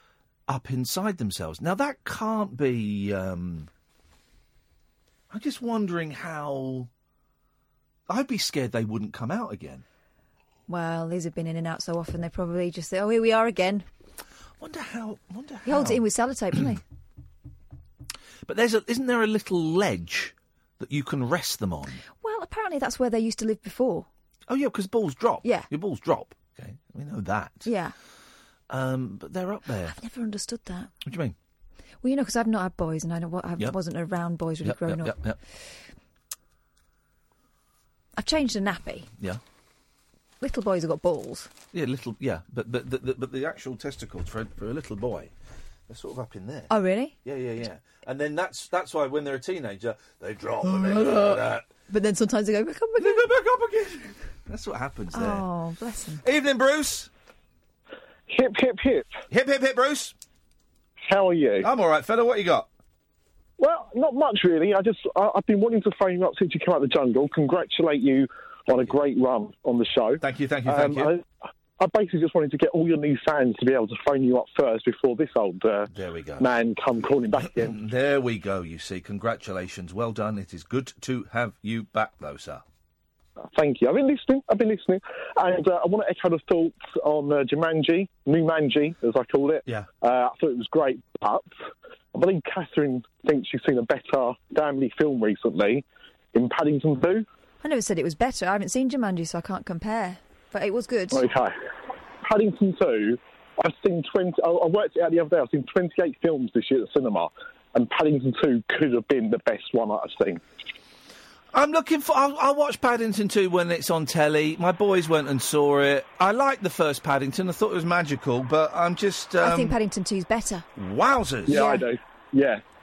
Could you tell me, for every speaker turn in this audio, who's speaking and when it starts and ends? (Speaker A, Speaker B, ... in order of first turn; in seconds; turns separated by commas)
Speaker A: 0.5-3.7, Speaker A: 5.3-6.9, Speaker A: 8.1-9.8, Speaker B: 10.7-13.8, Speaker A: 14.6-16.0, Speaker B: 15.7-16.8, Speaker A: 18.4-22.0, Speaker B: 22.2-24.1, Speaker A: 24.5-27.7, Speaker B: 25.4-25.7, Speaker B: 27.6-27.9, Speaker A: 28.7-29.9, Speaker B: 29.9-30.9, Speaker A: 31.0-31.4, Speaker B: 32.0-35.1, Speaker A: 34.6-35.4, Speaker B: 38.2-39.1, Speaker B: 40.4-41.5, Speaker A: 41.7-45.3, Speaker A: 45.9-46.7, Speaker B: 46.7-47.1, Speaker A: 47.2-51.6, Speaker B: 50.7-53.2, Speaker A: 53.0-55.4, Speaker B: 55.1-56.2, Speaker A: 56.2-57.1, Speaker C: 58.3-59.1, Speaker A: 59.3-60.1, Speaker C: 61.0-61.7, Speaker A: 61.6-62.7, Speaker C: 63.6-71.2, Speaker A: 68.7-69.0, Speaker A: 70.2-71.1, Speaker C: 71.8-75.9, Speaker A: 75.9-76.5, Speaker C: 76.4-77.8, Speaker A: 77.3-82.6, Speaker C: 83.5-91.5, Speaker C: 92.1-97.2, Speaker B: 97.6-101.3, Speaker C: 101.1-101.5, Speaker C: 102.2-110.4, Speaker A: 111.5-119.8, Speaker B: 119.4-120.7, Speaker A: 120.8-121.8, Speaker C: 121.5-122.6, Speaker B: 121.5-121.8